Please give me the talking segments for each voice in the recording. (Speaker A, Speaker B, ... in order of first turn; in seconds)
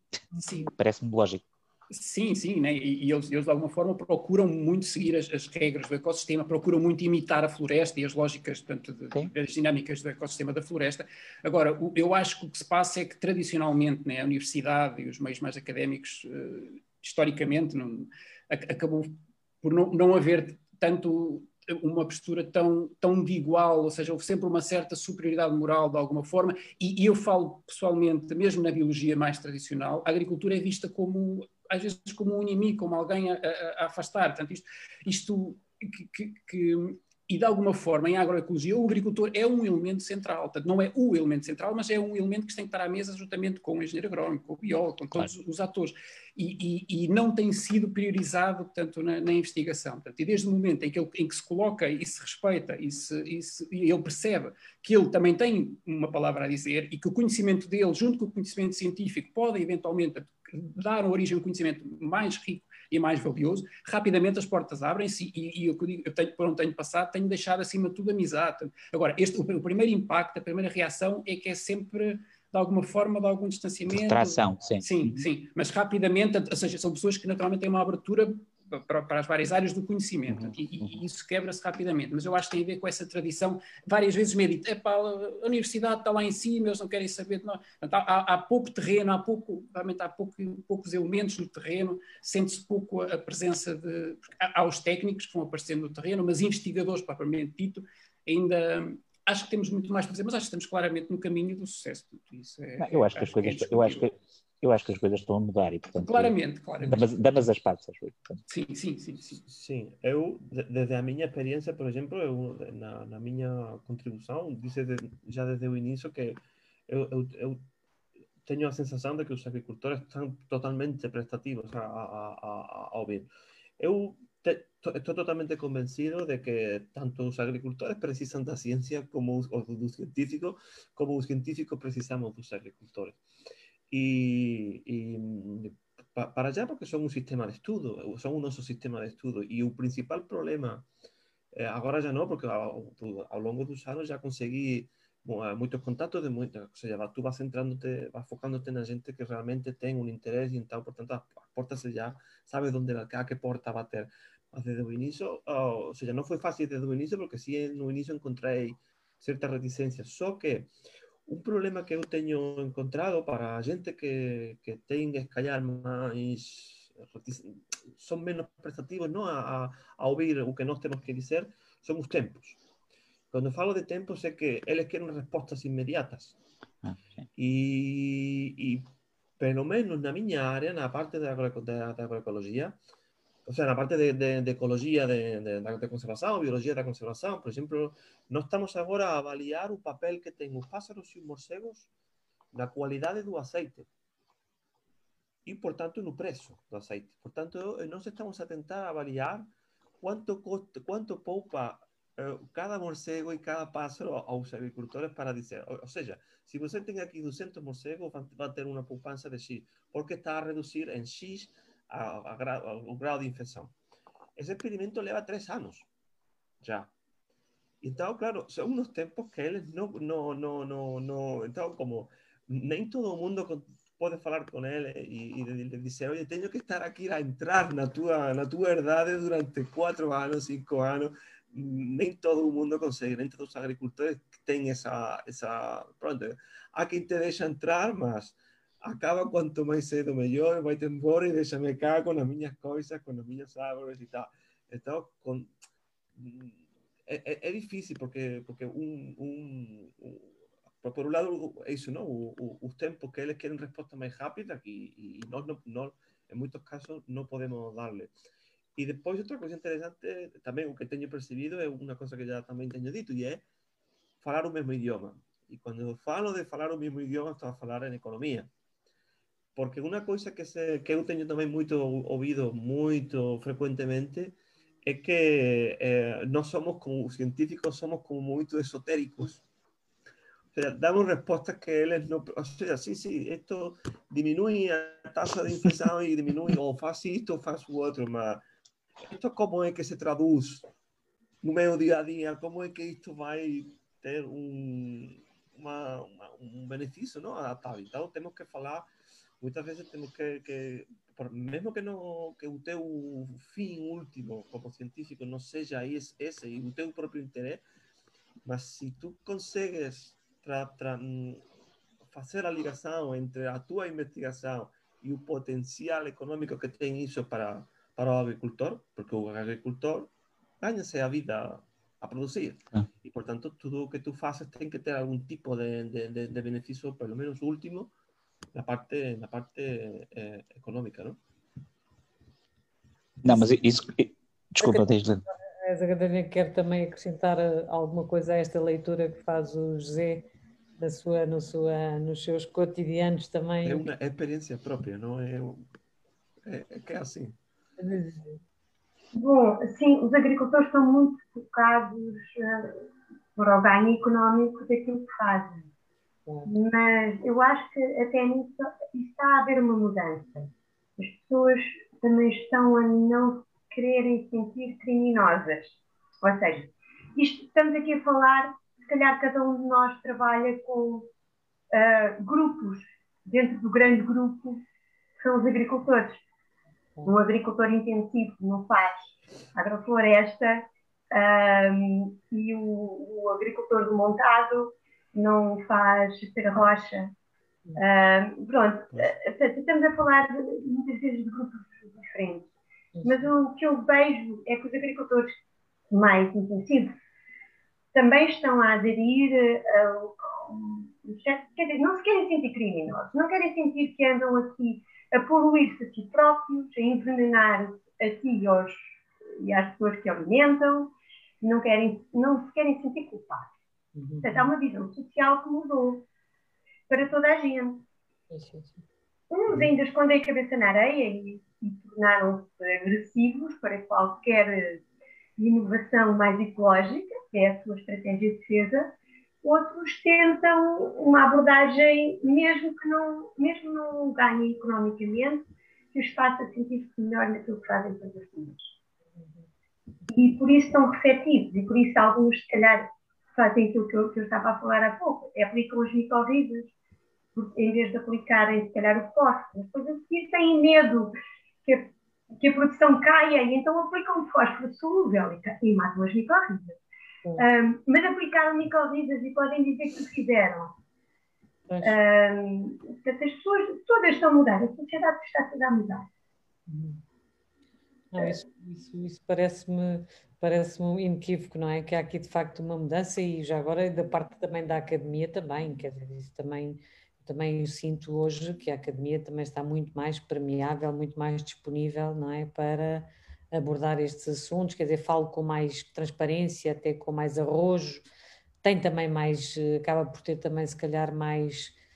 Speaker A: 0.6-1.4, 73.9-75.2, 80.4-80.9, 102.8-106.3, 106.8-108.4, 333.2-335.2
Speaker B: 1.9-104.1, 106.0-107.1, 108.5-109.4
Speaker C: 109.4-117.6, 118.4-133.2, 133.9-140.9, 141.5-160.7, 161.2-172.6, 173.3-176.4, 177.3-182.8, 183.4-191.9, 192.5-193.9, 195.4-199.5, 200.0-213.7, 214.3-215.9, 216.6-216.9, 217.8-245.5, 246.2-258.1, 258.8-263.4, 264.2-268.5, 269.6-279.4, 280.5-288.4, 289.0-290.7, 291.4-298.9, 299.4-307.6, 308.4-311.4, 312.0-327.9, 328.5-331.2, 343.6-345.6, 346.4-347.4
Speaker D: 334.6-340.2, 340.8-343.9, 347.8-348.4, 392.9-393.3, 413.9-414.5, 418.3-418.8, 466.7-467.0, 468.1-488.0, 488.6-491.7
Speaker E: 349.1-352.8, 353.3-355.7, 356.5-371.1, 371.7-374.6, 375.2-376.2, 377.0-387.1, 387.8-392.5, 393.0-395.3, 395.9-396.9, 397.9-413.5, 414.2-416.0, 416.9-417.8, 419.3-424.8, 425.4-428.9, 429.4-438.7, 440.1-446.7, 447.3-456.8, 457.4-460.8, 461.8-466.1